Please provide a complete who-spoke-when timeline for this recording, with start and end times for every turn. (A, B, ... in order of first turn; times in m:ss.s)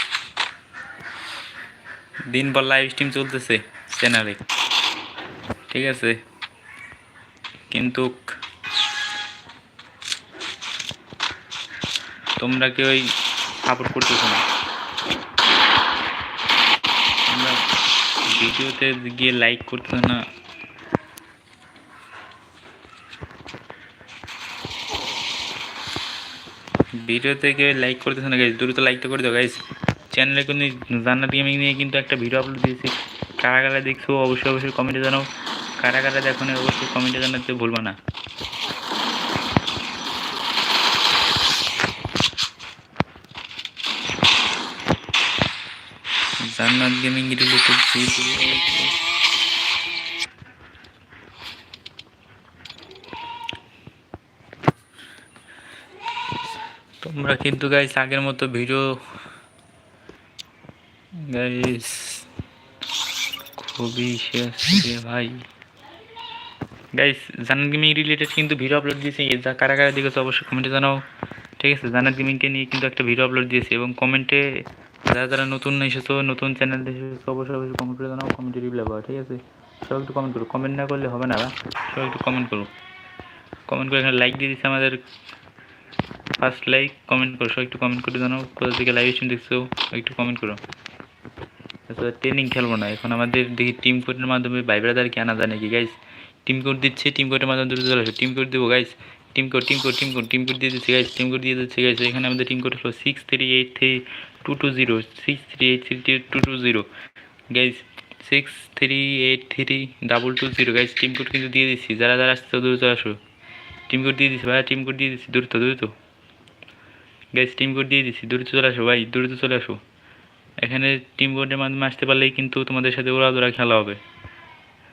0:02.3-0:04.4 A
0:05.7-0:06.2 A
0:07.7-0:08.3 A
0:12.4-0:14.4 A
0:17.3-0:17.6 A
0:18.2-0:20.2 A
0:27.0-0:35.3 A
0:35.8-0:38.0 A
0:46.4-0:49.0 A
0:57.0-0:58.9 A
1:01.2-1:02.2 A
1:03.6-1:05.4 A
1:06.9-1:11.0 A
1:11.6-1:14.4 A
1:15.0-1:22.7 A
1:23.7-1:25.0 A
1:26.4-1:30.6 A
1:31.9-1:46.9 A
1:47.5-1:53.2 A
1:53.9-1:55.9 A
1:57.3-1:59.8 A
2:00.6-2:04.0 A